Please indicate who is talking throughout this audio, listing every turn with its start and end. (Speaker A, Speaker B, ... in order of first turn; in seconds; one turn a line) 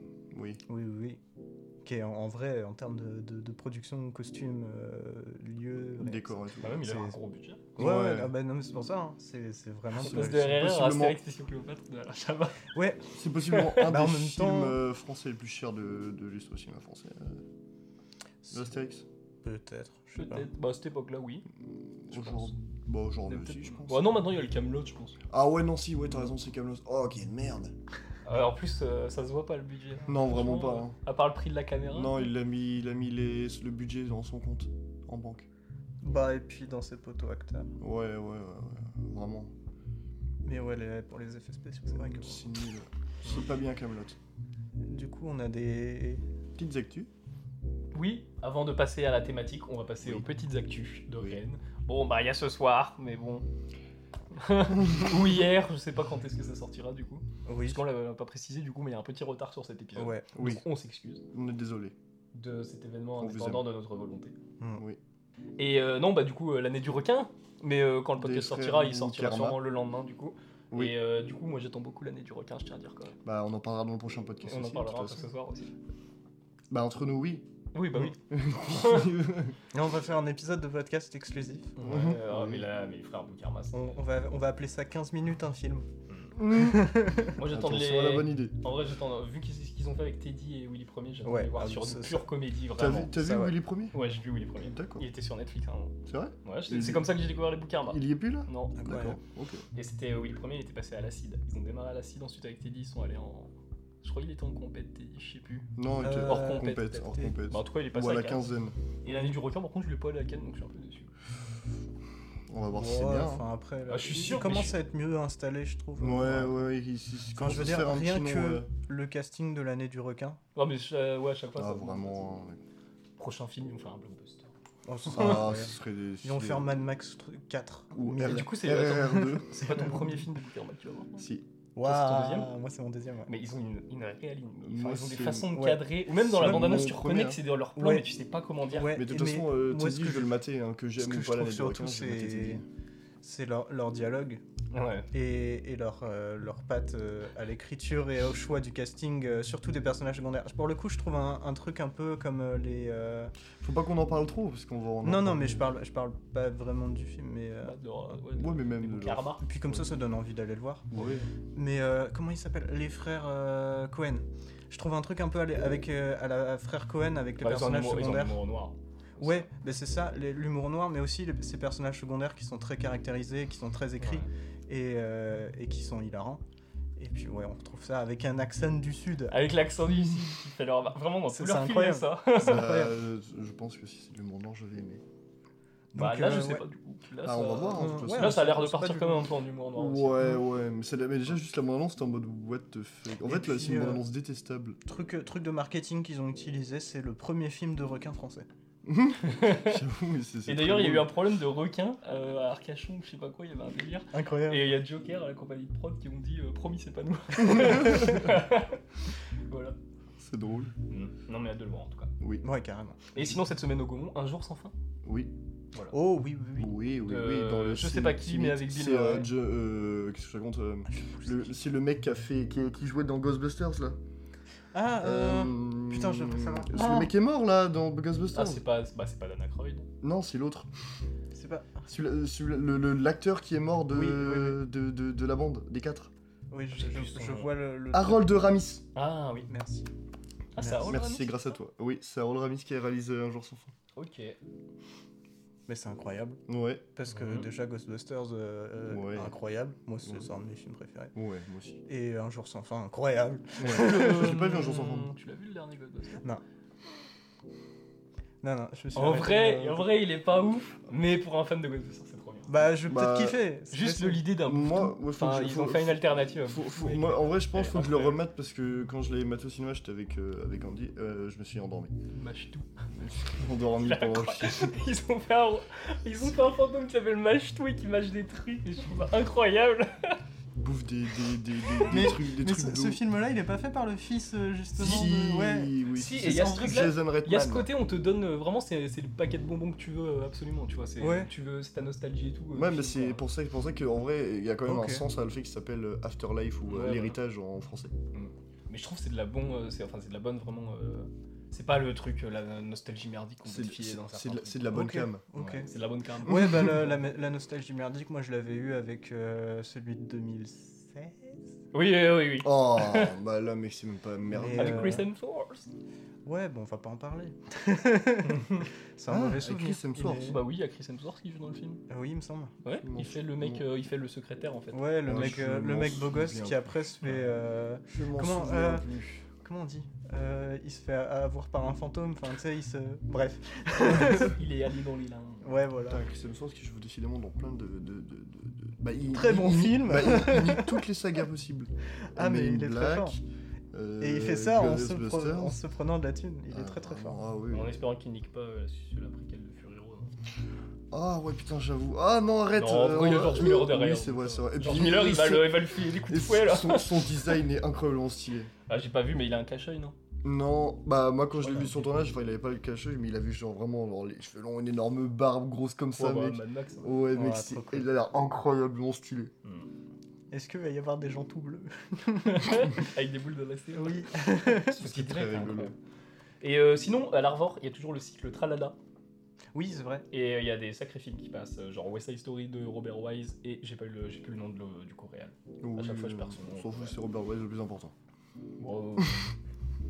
Speaker A: 0.3-0.6
Speaker B: 0.7-1.2
Speaker B: 1.8-7.2
Speaker A: 6.0-6.9
Speaker C: 6.6-7.8
Speaker B: 7.8-10.7
Speaker A: 7.8-8.3
Speaker C: 10.0-12.7
Speaker A: 10.0-11.2
Speaker B: 12.7-13.1
Speaker A: 13.1-17.4
Speaker C: 13.5-13.8
Speaker B: 13.7-14.8
Speaker A: 18.5-19.1
Speaker B: 19.4-20.5
Speaker C: 20.1-21.5
Speaker A: 21.6-24.2
Speaker C: 22.1-22.5
Speaker C: 23.3-25.2
Speaker A: 25.3-27.8
Speaker C: 28.2-32.3
Speaker A: 30.1-31.0
Speaker A: 31.9-35.5
Speaker B: 36.0-37.7
Speaker A: 37.8-39.5
Speaker B: 40.5-42.5
Speaker A: 42.0-44.2
Speaker B: 44.8-46.2
Speaker A: 46.6-47.1
Speaker C: 47.9-53.5
Speaker C: 54.3-61.2
Speaker B: 57.5-57.9
Speaker B: 60.0-60.5
Speaker A: 60.3-60.6
Speaker A: 61.3-62.0
Speaker C: 62.3-64.4
Speaker A: 63.2-63.7
Speaker C: 65.6-73.2
Speaker A: 68.2-69.6
Speaker A: 70.7-71.0
Speaker A: 73.2-75.3
Speaker C: 74.4-75.7
Speaker A: 76.7-77.5
Speaker C: 77.7-79.2
Speaker A: 78.2-79.6
Speaker B: 79.7-81.8
Speaker C: 81.8-84.0
Speaker A: 81.8-82.7
Speaker B: 83.7-85.9
Speaker C: 86.1-86.4
Speaker A: 86.4-88.7
Speaker B: 86.4-87.4
Speaker C: 87.3-93.2
Speaker B: 91.2-92.3
Speaker A: 92.8-94.0
Speaker B: 93.1-93.6
Speaker C: 93.9-98.8
Speaker A: 94.6-95.1
Speaker A: 96.1-97.2
Speaker A: 97.8-99.7
Speaker B: 98.8-99.2
Speaker C: 99.8-108.5
Speaker A: 105.8-108.8
Speaker B: 106.0-106.8
Speaker C: 109.0-111.1
Speaker A: 112.5-113.5
Speaker B: 112.7-116.6
Speaker C: 113.9-114.8
Speaker A: 116.0-118.7
Speaker B: 117.3-120.4
Speaker C: 120.5-122.2
Speaker A: 121.6-122.6
Speaker C: 123.2-124.5
Speaker B: 124.9-130.1
Speaker A: 125.1-126.7
Speaker A: 128.0-130.0
Speaker C: 128.2-131.3
Speaker A: 131.2-131.5
Speaker B: 131.8-133.3
Speaker C: 131.8-132.5
Speaker C: 133.3-139.0
Speaker A: 134.6-135.5
Speaker B: 135.5-136.9
Speaker A: 136.1-137.4
Speaker B: 137.8-138.1
Speaker B: 138.7-140.4
Speaker A: 138.9-142.6
Speaker B: 141.0-142.6
Speaker B: 143.2-144.4
Speaker C: 144.7-145.1
Speaker B: 145.1-153.3
Speaker A: 153.6-155.7
Speaker B: 155.0-157.8
Speaker C: 157.6-159.5
Speaker A: 158.3-159.9
Speaker B: 159.4-160.9
Speaker A: 160.9-161.3
Speaker C: 161.0-161.3
Speaker B: 161.5-168.4
Speaker C: 167.4-169.5
Speaker B: 169.2-176.4
Speaker C: 174.0-174.3
Speaker B: 177.0-179.4
Speaker C: 179.3-182.8
Speaker B: 181.3-183.0
Speaker A: 182.4-185.0
Speaker B: 185.9-186.6
Speaker C: 185.9-190.3
Speaker A: 187.2-188.5
Speaker B: 187.7-189.3
Speaker A: 189.8-194.8
Speaker B: 193.2-194.0
Speaker B: 194.9-198.5
Speaker A: 198.8-201.1
Speaker C: 199.2-199.8
Speaker C: 200.5-208.8
Speaker B: 204.1-204.8
Speaker C: 209.5-209.8
Speaker A: 210.2-210.7
Speaker C: 210.9-212.1
Speaker A: 212.2-212.5
Speaker B: 212.4-213.0
Speaker C: 213.1-214.7
Speaker A: 215.0-215.3
Speaker B: 215.9-216.8
Speaker A: 216.6-224.0
Speaker C: 217.0-219.3
Speaker B: 220.9-221.6
Speaker B: 224.7-227.1
Speaker A: 225.0-228.6
Speaker C: 228.3-229.9
Speaker A: 230.0-230.7
Speaker B: 231.3-231.9
Speaker A: 231.9-236.1
Speaker B: 233.9-234.6
Speaker B: 236.5-238.3
Speaker C: 236.8-237.5
Speaker A: 237.9-238.9
Speaker C: 238.9-239.5
Speaker B: 239.5-239.9
Speaker C: 240.6-241.6
Speaker B: 240.6-241.0
Speaker A: 240.8-243.7
Speaker C: 243.9-244.4
Speaker B: 245.7-246.4
Speaker A: 246.5-246.8
Speaker B: 246.9-251.2
Speaker C: 247.1-247.5
Speaker A: 248.9-249.3
Speaker A: 251.2-251.8
Speaker B: 251.9-254.4
Speaker A: 253.6-255.1
Speaker C: 253.7-256.2
Speaker B: 258.4-259.9
Speaker C: 258.9-262.7
Speaker B: 262.5-264.4
Speaker A: 262.8-263.4
Speaker C: 263.7-268.2
Speaker A: 264.4-271.9
Speaker C: 272.1-272.7
Speaker A: 272.9-274.8
Speaker C: 273.6-280.2
Speaker A: 280.6-283.0
Speaker B: 281.9-286.7
Speaker A: 284.8-287.7
Speaker C: 284.8-285.1
Speaker C: 285.9-293.2
Speaker B: 291.0-291.3
Speaker A: 292.5-297.9
Speaker B: 294.7-295.1
Speaker C: 296.7-297.2
Speaker C: 298.1-304.8
Speaker A: 303.4-305.2
Speaker B: 304.7-305.7
Speaker C: 305.4-306.9
Speaker B: 306.2-311.4
Speaker C: 311.7-313.1
Speaker A: 312.4-315.0
Speaker B: 314.3-315.1
Speaker C: 314.6-315.7
Speaker B: 316.2-320.4
Speaker C: 318.2-318.7
Speaker A: 319.1-320.4
Speaker C: 320.1-321.8
Speaker B: 321.9-322.6
Speaker C: 322.6-325.0
Speaker A: 322.8-323.6
Speaker B: 324.7-328.9
Speaker A: 325.1-326.7
Speaker C: 327.0-327.3
Speaker A: 327.9-329.2
Speaker B: 329.4-334.4
Speaker C: 333.9-335.6
Speaker B: 335.4-336.0
Speaker A: 335.9-345.6
Speaker B: 339.1-340.8
Speaker B: 342.1-343.2
Speaker B: 344.0-347.2
Speaker A: 346.5-347.7
Speaker C: 347.5-350.1
Speaker A: 350.9-358.5
Speaker C: 352.6-357.2
Speaker C: 358.7-359.9
Speaker A: 360.2-369.3
Speaker C: 361.4-361.8
Speaker C: 366.0-366.9
Speaker B: 367.1-367.9
Speaker C: 369.4-369.7
Speaker B: 370.3-372.9
Speaker C: 372.3-375.8
Speaker B: 373.7-374.8
Speaker A: 374.7-375.7
Speaker C: 376.4-378.8
Speaker B: 379.5-380.1
Speaker C: 380.1-387.0
Speaker A: 385.6-387.9
Speaker C: 388.6-389.3